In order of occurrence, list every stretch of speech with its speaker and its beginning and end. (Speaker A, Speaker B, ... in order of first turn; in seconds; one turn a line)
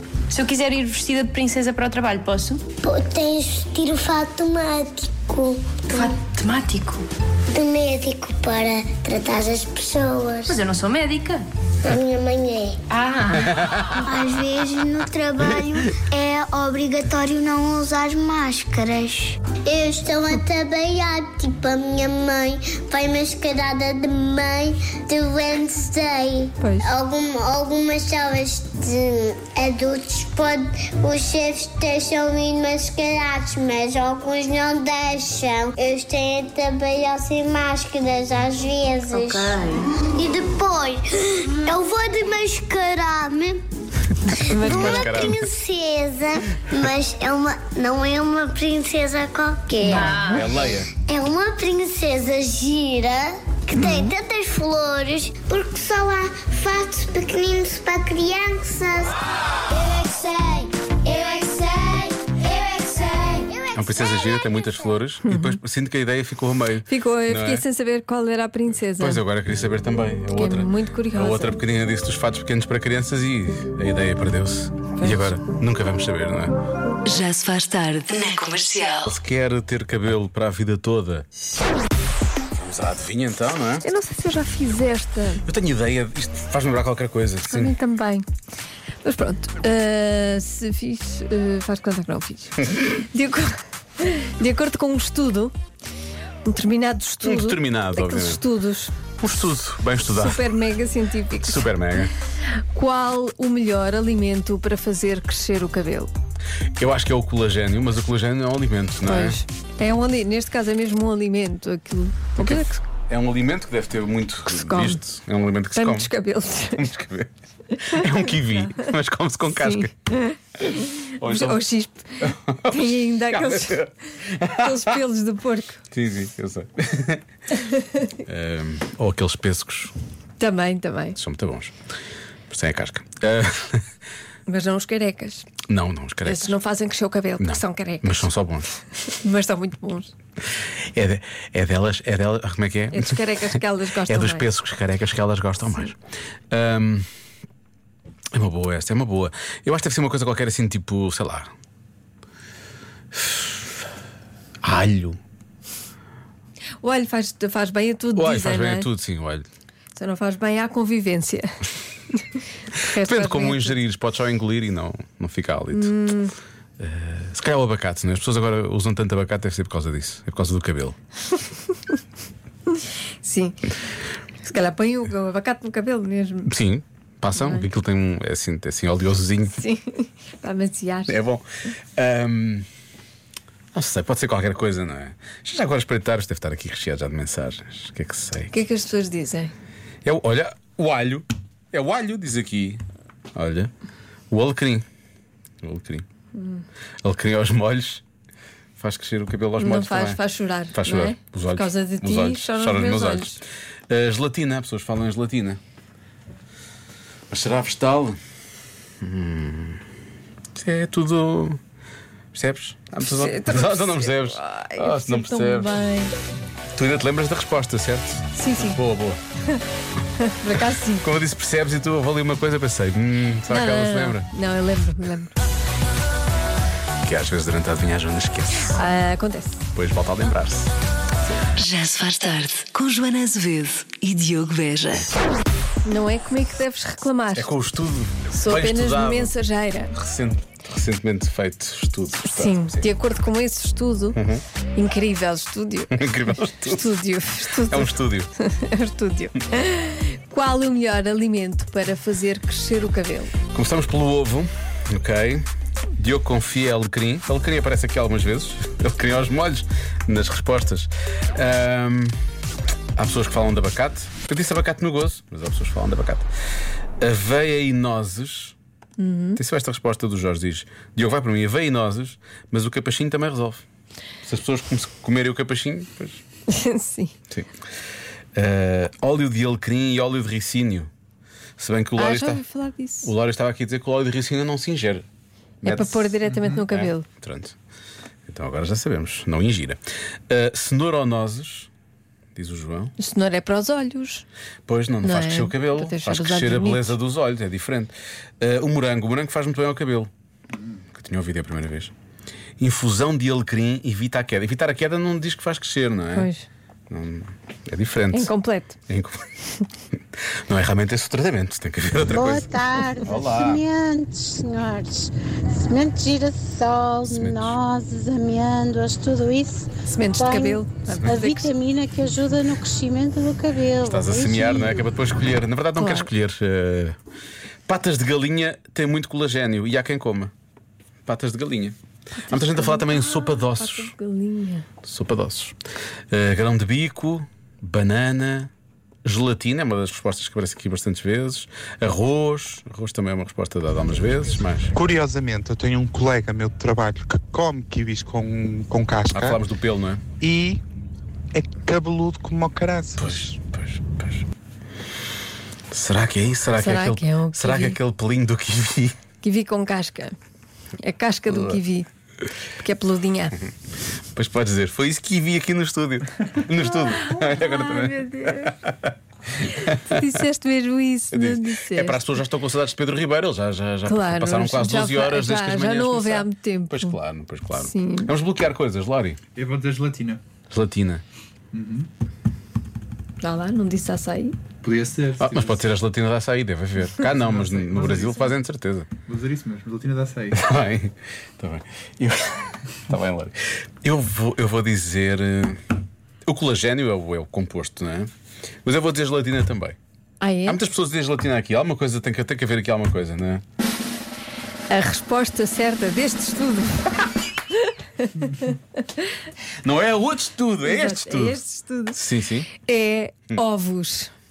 Speaker A: 0.3-2.6
Speaker B: 2.8-6.1
Speaker A: 5.9-7.0
Speaker B: 7.5-10.6
Speaker A: 10.4-11.4
Speaker B: 11.8-12.8
Speaker A: 12.9-13.9
Speaker C: 13.4-14.0
Speaker B: 14.0-43.6
Speaker D: 26.6-26.9
Speaker A: 39.1-39.8
Speaker B: 44.3-64.9
Speaker D: 44.5-45.2
Speaker C: 44.5-45.4
Speaker D: 49.9-50.4
Speaker C: 50.2-50.9
Speaker D: 53.8-54.1
Speaker C: 63.7-67.6
Speaker D: 65.2-65.6
Speaker D: 66.8-69.2
Speaker C: 69.0-76.5
Speaker D: 70.3-71.6
Speaker D: 75.0-75.3
Speaker E: 77.0-79.1
Speaker C: 79.0-81.2
Speaker C: 82.5-83.8
Speaker D: 83.8-85.4
Speaker C: 85.4-87.7
Speaker D: 87.4-88.2
Speaker D: 89.0-95.5
Speaker D: 96.4-99.0
Speaker C: 97.2-98.4
Speaker C: 99.2-100.5
Speaker D: 100.0-102.0
Speaker C: 101.4-102.1
Speaker D: 102.7-106.1
Speaker C: 106.8-109.4
Speaker D: 109.0-112.8
Speaker C: 112.3-116.1
Speaker D: 114.5-115.0
Speaker D: 115.7-116.9
Speaker C: 116.7-119.9
Speaker D: 119.6-123.9
Speaker C: 121.0-121.6
Speaker C: 122.2-125.0
Speaker D: 124.5-125.8
Speaker C: 125.9-127.2
Speaker C: 128.2-129.9
Speaker D: 130.4-131.2
Speaker C: 131.1-131.7
Speaker C: 132.5-133.8
Speaker D: 134.5-135.5
Speaker C: 135.7-136.5
Speaker D: 136.2-138.3
Speaker C: 137.4-138.7
Speaker D: 139.1-140.1
Speaker C: 140.9-143.4
Speaker D: 142.9-144.5
Speaker C: 144.0-146.0
Speaker C: 146.5-147.1
Speaker C: 148.3-151.5
Speaker C: 153.1-153.7
Speaker C: 154.6-155.2
Speaker D: 156.8-158.9
Speaker C: 158.1-159.5
Speaker D: 159.9-161.5
Speaker C: 162.7-165.9
Speaker D: 162.8-163.8
Speaker D: 165.7-166.3
Speaker C: 166.8-170.9
Speaker D: 173.2-173.7
Speaker D: 174.4-176.5
Speaker C: 176.5-179.6
Speaker D: 177.3-177.7
Speaker D: 179.5-181.2
Speaker C: 181.1-182.7
Speaker C: 183.7-188.6
Speaker D: 188.5-189.5
Speaker C: 190.0-192.8
Speaker C: 193.3-193.7
Speaker C: 194.3-194.8
Speaker C: 195.6-196.0
Speaker C: 197.0-198.0
Speaker C: 198.8-200.2
Speaker D: 199.6-203.4
Speaker C: 200.7-203.4
Speaker C: 203.9-205.6
Speaker C: 207.3-208.2
Speaker C: 209.0-209.8
Speaker C: 210.6-211.6
Speaker C: 212.3-215.8
Speaker D: 213.0-216.1
Speaker C: 216.7-219.2
Speaker D: 218.3-218.8
Speaker D: 220.2-221.1
Speaker C: 220.5-224.3
Speaker D: 223.5-225.3
Speaker C: 227.0-228.8
Speaker D: 228.7-229.6
Speaker C: 229.7-230.7
Speaker E: 231.6-235.1
Speaker D: 235.8-237.5
Speaker C: 237.3-239.3
Speaker D: 238.3-239.9
Speaker C: 239.9-242.9
Speaker D: 242.2-244.2
Speaker C: 244.1-244.4
Speaker D: 244.8-253.3
Speaker C: 245.9-246.9
Speaker C: 247.6-248.3
Speaker C: 253.5-262.1
Speaker C: 262.9-266.3
Speaker C: 267.0-268.6
Speaker D: 269.0-269.4
Speaker C: 269.4-273.6
Speaker C: 274.2-276.2
Speaker D: 276.5-277.1
Speaker C: 278.4-280.9
Speaker C: 281.6-282.4
Speaker D: 281.9-283.1
Speaker C: 283.0-285.1
Speaker D: 285.6-287.1
Speaker C: 285.6-287.6
Speaker C: 288.3-291.7
Speaker C: 292.3-292.9
Speaker D: 293.0-294.2
Speaker C: 294.7-300.1
Speaker D: 295.0-296.9
Speaker C: 300.9-301.9
Speaker C: 302.6-306.3
Speaker D: 306.1-306.4
Speaker C: 306.9-308.3
Speaker D: 308.1-308.8
Speaker C: 308.9-309.3
Speaker C: 310.5-312.5
Speaker F: 312.0-324.9
Speaker C: 313.0-313.6
Speaker C: 317.1-317.6
Speaker D: 319.8-321.5
Speaker C: 323.9-327.0
Speaker D: 325.8-326.1
Speaker C: 327.7-330.3
Speaker C: 331.0-331.8
Speaker D: 332.1-334.7
Speaker C: 332.3-333.9
Speaker C: 334.8-335.5
Speaker C: 336.1-338.5
Speaker C: 339.0-344.7
Speaker G: 344.7-349.4
Speaker C: 349.1-350.0
Speaker G: 350.2-350.6
Speaker G: 351.3-353.1
Speaker C: 353.0-354.2
Speaker C: 355.7-359.0
Speaker D: 356.6-357.8
Speaker D: 359.2-360.1
Speaker D: 360.8-361.9
Speaker C: 361.3-361.6
Speaker D: 362.6-363.4
Speaker C: 364.1-370.1
Speaker D: 366.6-368.5
Speaker D: 369.9-372.2
Speaker C: 371.1-379.2
Speaker D: 373.9-376.9
Speaker D: 377.5-378.1
Speaker H: 379.4-380.2
Speaker C: 380.5-381.0
Speaker H: 381.5-381.9
Speaker D: 383.2-384.4
Speaker H: 384.6-385.6
Speaker C: 385.2-388.9
Speaker H: 387.1-388.3
Speaker H: 389.1-390.4
Speaker C: 390.3-395.6
Speaker C: 396.2-398.1
Speaker C: 398.6-399.8
Speaker D: 400.2-400.6
Speaker C: 400.4-403.4
Speaker D: 404.7-407.1
Speaker D: 407.6-408.6
Speaker C: 409.6-411.4
Speaker D: 410.6-414.1
Speaker C: 411.9-412.5